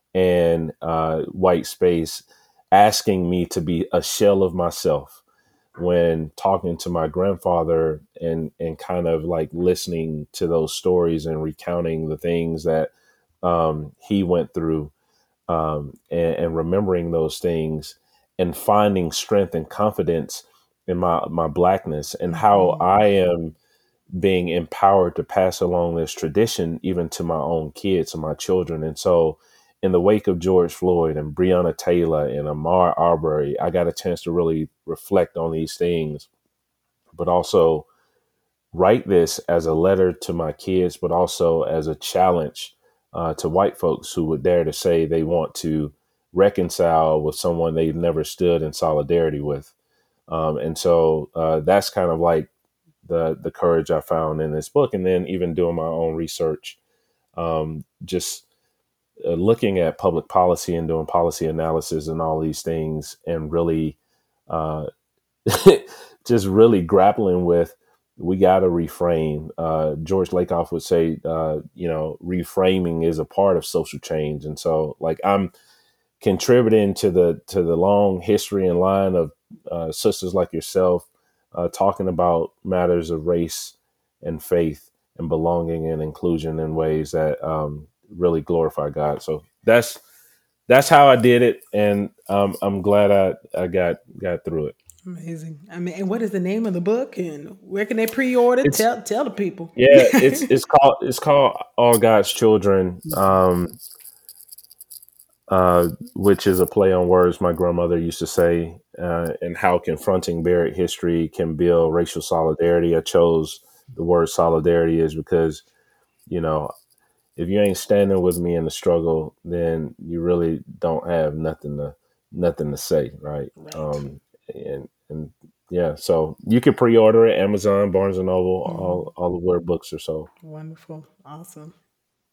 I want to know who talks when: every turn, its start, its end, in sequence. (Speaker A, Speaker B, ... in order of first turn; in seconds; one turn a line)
Speaker A: 0.1-5.2
Speaker A: 5.8-14.9
Speaker A: 15.5-23.6
Speaker B: 22.3-22.9
Speaker A: 24.1-36.3
Speaker A: 37.1-37.9
Speaker A: 38.7-49.7
Speaker A: 50.3-52.5
Speaker A: 53.0-56.8
Speaker A: 57.4-58.4
Speaker A: 59.2-64.0
Speaker A: 64.5-64.9
Speaker A: 65.5-75.5
Speaker A: 76.2-90.0
Speaker A: 90.7-94.7
Speaker B: 95.0-100.5
Speaker A: 99.8-103.8
Speaker A: 105.5-115.6
Speaker A: 116.3-116.7
Speaker A: 117.3-130.3
Speaker B: 123.5-124.0
Speaker B: 128.6-129.1
Speaker B: 130.4-131.7